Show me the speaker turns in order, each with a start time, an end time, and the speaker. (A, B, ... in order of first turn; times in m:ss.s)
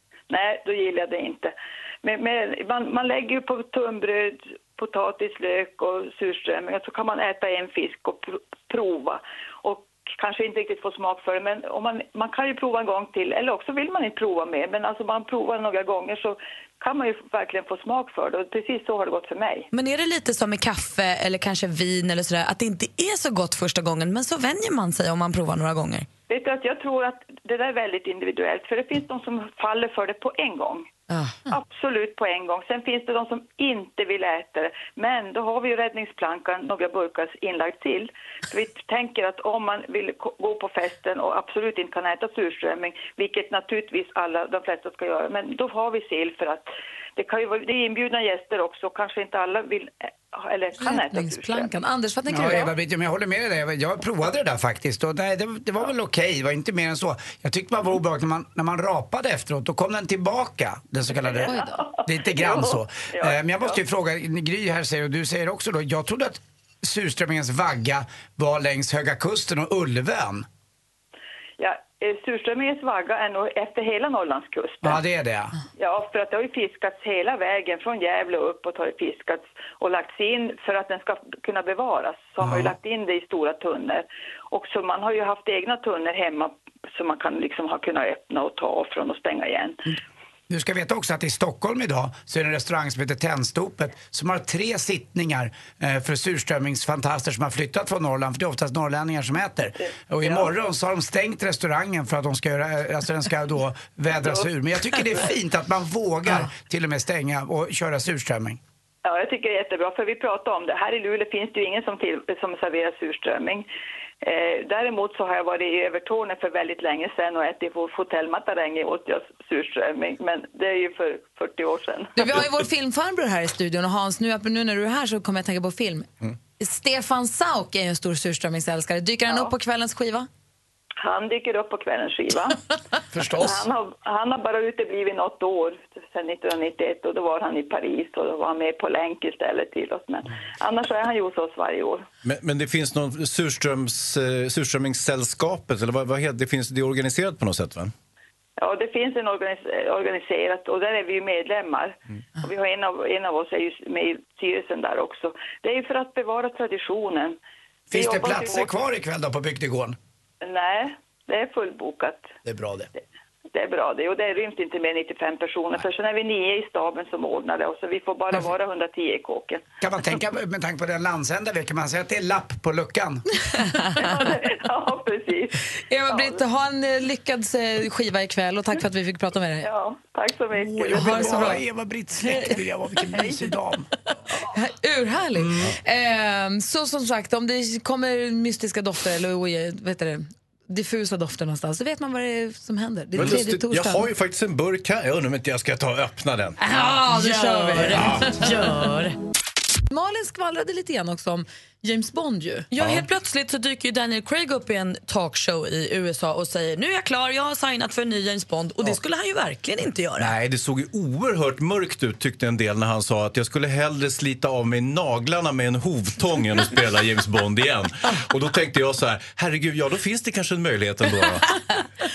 0:00.3-0:19.7 A
0:19.7-0:26.1 B
0:26.3-0:30.9 A
0:31.5-0:51.7 A
0:50.8-0:52.7 C
0:52.3-1:10.5 D
1:01.3-1:03.8 A
1:01.4-1:01.9 C
1:11.6-1:15.0 A
1:14.8-1:15.5 D
1:15.8-1:29.8 A
1:22.4-1:22.7 D
1:30.5-1:48.6 D
1:40.2-1:40.5 A
1:44.2-1:44.5 A
1:49.0-1:53.7 A
1:54.2-2:02.4 A
2:02.2-2:10.3 C
2:11.0-2:12.6 A
2:13.1-2:13.6 D
2:13.3-2:22.0 A
2:22.2-2:27.9 E
2:28.6-2:37.4 A
2:37.9-2:40.0 D
2:37.9-2:38.7 A
2:40.4-2:42.3 A
2:42.4-2:42.9 D
2:43.5-2:49.6 A
2:49.8-2:53.2 D
2:53.9-2:56.4 A
2:55.9-2:59.7 C
2:59.6-3:01.4 A
3:00.5-3:03.9 D
3:00.8-3:01.6 C
3:02.2-3:02.6 C
3:04.4-3:14.1 C
3:05.3-3:05.7 D
3:13.2-3:16.6 E
3:16.6-3:18.6 C
3:16.7-3:19.2 B
3:17.9-3:18.4 E
3:19.9-3:22.7 C
3:22.7-3:30.3 B
3:22.8-3:23.1 E
3:30.2-3:41.5 E